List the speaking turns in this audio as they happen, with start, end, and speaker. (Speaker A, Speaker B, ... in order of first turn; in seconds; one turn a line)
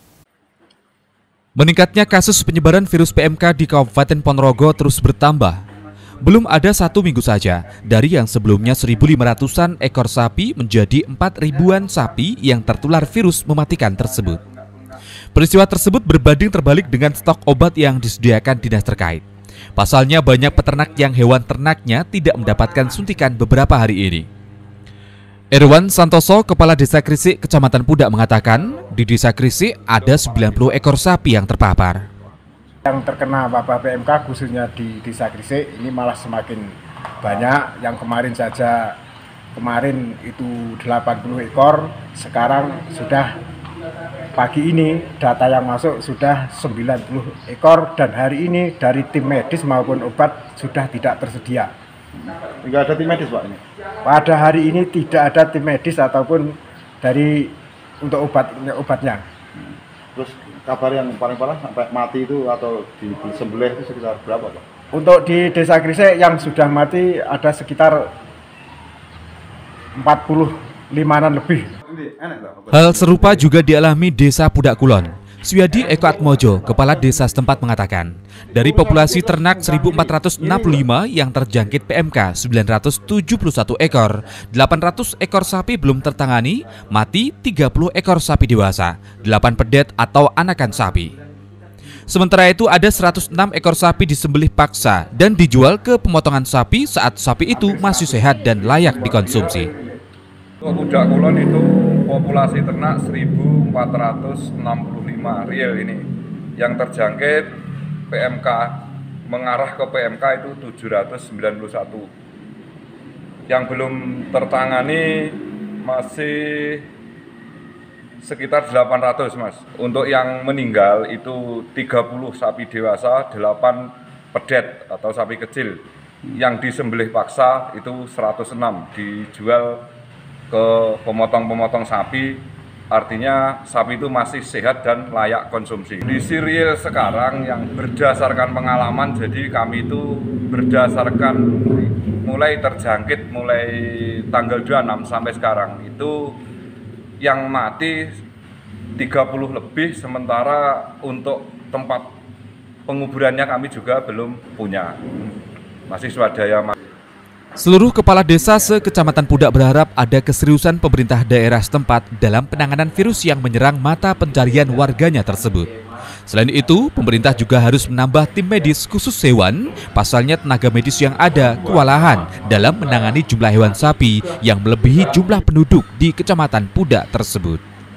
Speaker A: 1.6-5.6
Speaker A: 6.2-14.4
Speaker A: 15.3-19.2
Speaker A: 19.8-24.3
Speaker A: 25.5-32.0
Speaker B: 32.9-38.9
Speaker B: 39.5-43.3
Speaker B: 44.3-51.7
Speaker C: 52.1-53.6
Speaker B: 54.0-59.2
Speaker C: 59.6-64.6
Speaker B: 64.9-68.1
Speaker B: 70.0-71.7
Speaker C: 71.9-73.5
Speaker A: 72.7-91.1
Speaker C: 75.7-77.6
Speaker C: 78.5-80.8
Speaker A: 92.1-99.7
Speaker B: 97.7-99.9
Speaker D: 100.6-106.0
Speaker D: 106.6-107.5
Speaker D: 108.1-108.7
Speaker D: 109.3-112.1
Speaker D: 113.5-116.9
Speaker D: 118.2-125.8
Speaker D: 126.3-129.7
Speaker D: 130.5-146.3
Speaker D: 147.2-148.0
Speaker D: 149.0-152.1
Speaker D: 152.9-155.0
Speaker D: 155.9-156.7
Speaker A: 157.6-165.7
Speaker A: 166.3-177.6